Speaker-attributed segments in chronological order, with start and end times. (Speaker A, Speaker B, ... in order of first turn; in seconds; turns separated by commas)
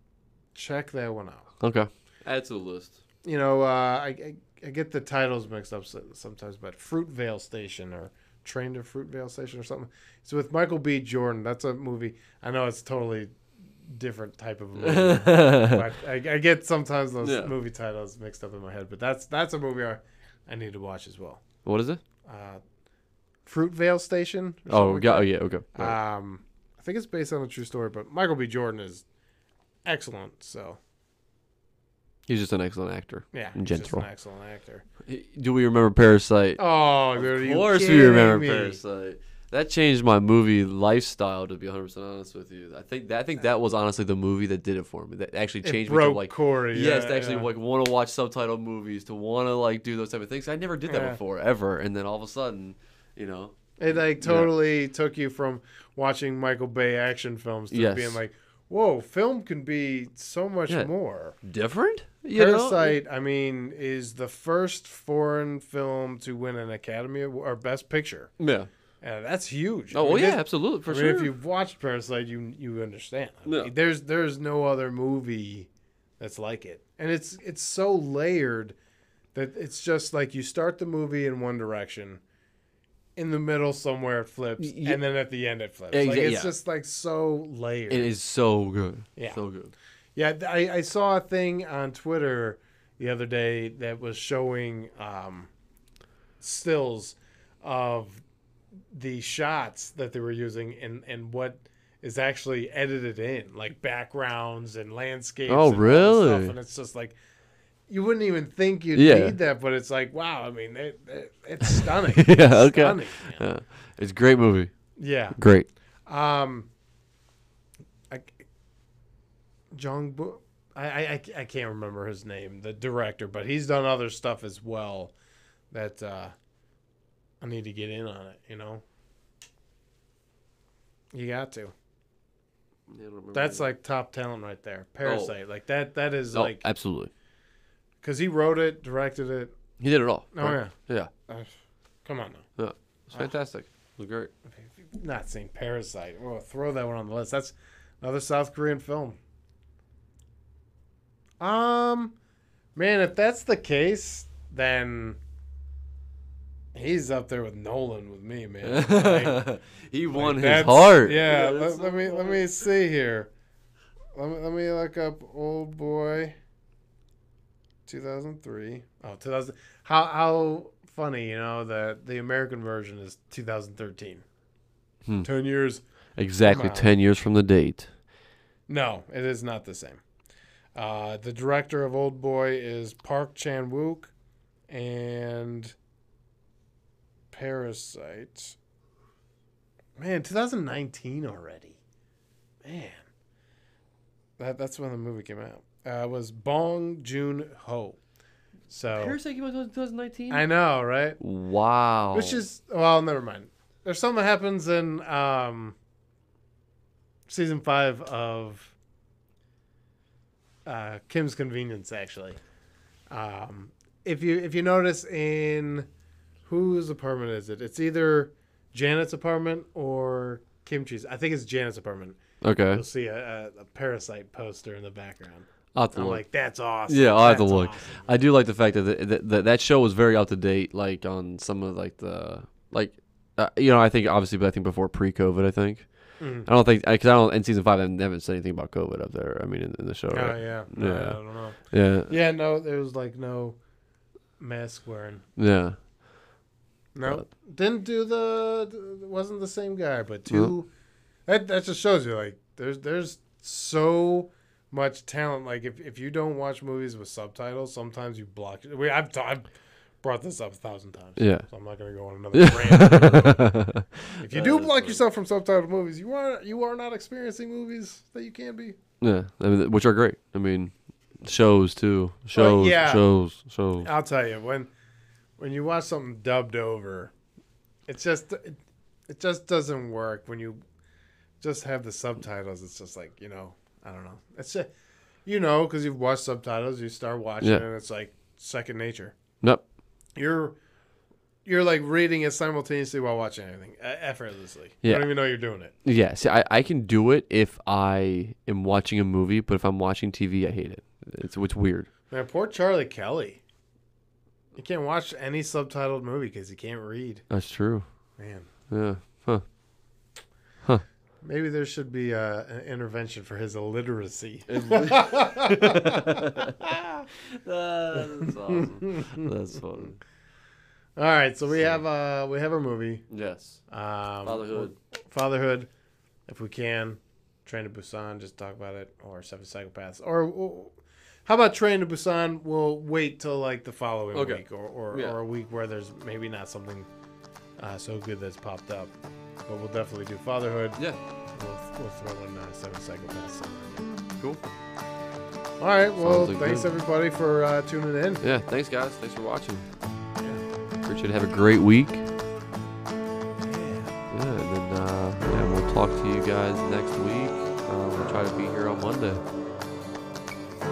Speaker A: 0.5-1.4, Speaker B: 1.6-3.0, Speaker A: 3.2-21.4, Speaker B: 14.8-15.8, Speaker B: 17.2-17.5, Speaker B: 21.6-22.0, Speaker A: 22.2-22.6, Speaker A: 23.4-29.0, Speaker B: 24.7-25.9, Speaker A: 29.8-30.8, Speaker B: 32.3-34.1, Speaker A: 33.3-34.8, Speaker B: 35.0-36.6, Speaker A: 36.6-38.8, Speaker B: 37.1-53.5, Speaker A: 45.6-47.5, Speaker A: 50.9-51.2, Speaker A: 53.8-61.4, Speaker B: 54.2-54.5, Speaker B: 57.7-58.2, Speaker B: 61.4-63.0, Speaker A: 62.3-68.3, Speaker B: 68.4-68.7, Speaker A: 69.0-78.8, Speaker B: 69.9-71.3, Speaker B: 73.5-73.7, Speaker A: 79.3-82.2, Speaker A: 83.2-88.1, Speaker B: 84.6-85.0, Speaker B: 85.9-86.5, Speaker B: 87.9-89.7, Speaker A: 89.2-89.4, Speaker A: 90.1-95.5, Speaker A: 96.4-98.2, Speaker A: 98.9-107.2, Speaker B: 105.5-106.5, Speaker A: 107.9-113.5, Speaker B: 108.9-109.3, Speaker B: 112.0-114.7, Speaker A: 115.0-115.4, Speaker B: 115.4-115.7, Speaker A: 116.0-116.7, Speaker A: 118.1-118.4, Speaker A: 119.7-125.1, Speaker A: 125.7-126.3, Speaker A: 127.4-128.8, Speaker A: 131.1-131.7, Speaker B: 132.9-133.7, Speaker A: 133.3-136.6, Speaker B: 135.0-135.3, Speaker B: 136.3-137.1, Speaker A: 138.0-139.5, Speaker B: 139.8-141.1, Speaker A: 140.3-140.7, Speaker A: 141.3-141.5, Speaker A: 142.0-142.4, Speaker B: 142.6-144.3, Speaker A: 144.5-149.2, Speaker A: 151.4-152.2, Speaker A: 152.7-155.2, Speaker A: 156.7-159.4, Speaker B: 158.6-162.4, Speaker A: 160.1-163.3, Speaker A: 164.1-166.4, Speaker A: 167.8-174.2, Speaker A: 175.2-175.8, Speaker B: 176.2-177.9, Speaker A: 176.4-176.9, Speaker A: 178.7-180.0, Speaker A: 180.7-184.1, Speaker A: 184.7-185.7, Speaker A: 187.3-188.6, Speaker A: 190.0-191.8, Speaker A: 192.6-193.0, Speaker A: 194.4-198.0, Speaker A: 198.7-199.2, Speaker B: 198.9-200.5, Speaker A: 200.3-201.2, Speaker B: 201.2-202.4, Speaker A: 202.1-205.8, Speaker A: 207.3-208.7, Speaker A: 210.7-212.4, Speaker A: 213.1-215.9, Speaker A: 216.4-222.2, Speaker B: 222.4-222.8, Speaker A: 222.7-228.2, Speaker B: 225.7-226.2, Speaker B: 226.9-242.1, Speaker A: 236.2-236.5, Speaker A: 240.1-243.6, Speaker A: 244.4-245.2, Speaker B: 245.4-245.8, Speaker A: 246.9-250.7, Speaker A: 251.2-259.5, Speaker A: 260.0-263.6, Speaker B: 261.2-261.4, Speaker B: 262.3-265.0, Speaker A: 264.2-268.8, Speaker B: 269.0-273.9, Speaker A: 272.3-273.1, Speaker A: 273.8-274.7, Speaker A: 275.4-277.1, Speaker A: 277.9-280.6, Speaker A: 281.4-284.7, Speaker A: 285.2-289.1, Speaker A: 290.1-290.6, Speaker A: 291.4-295.7, Speaker B: 294.8-295.1, Speaker B: 295.8-301.9, Speaker A: 302.1-303.4, Speaker A: 304.6-307.2, Speaker B: 307.3-307.8, Speaker A: 308.2-308.5, Speaker B: 308.7-309.4, Speaker A: 311.2-317.1, Speaker B: 314.5-316.6, Speaker B: 317.3-320.0, Speaker A: 317.9-319.3, Speaker A: 321.0-323.1, Speaker B: 323.1-323.6, Speaker A: 323.7-325.7, Speaker B: 324.2-324.7, Speaker A: 326.3-336.9, Speaker B: 334.1-335.2, Speaker A: 337.6-338.9, Speaker A: 339.5-340.8, Speaker A: 341.3-343.9, Speaker B: 344.2-344.5, Speaker A: 345.6-348.2, Speaker B: 345.9-346.7, Speaker B: 348.2-349.7, Speaker A: 350.2-350.4, Speaker B: 350.8-352.1, Speaker A: 353.4-354.0, Speaker B: 354.1-359.2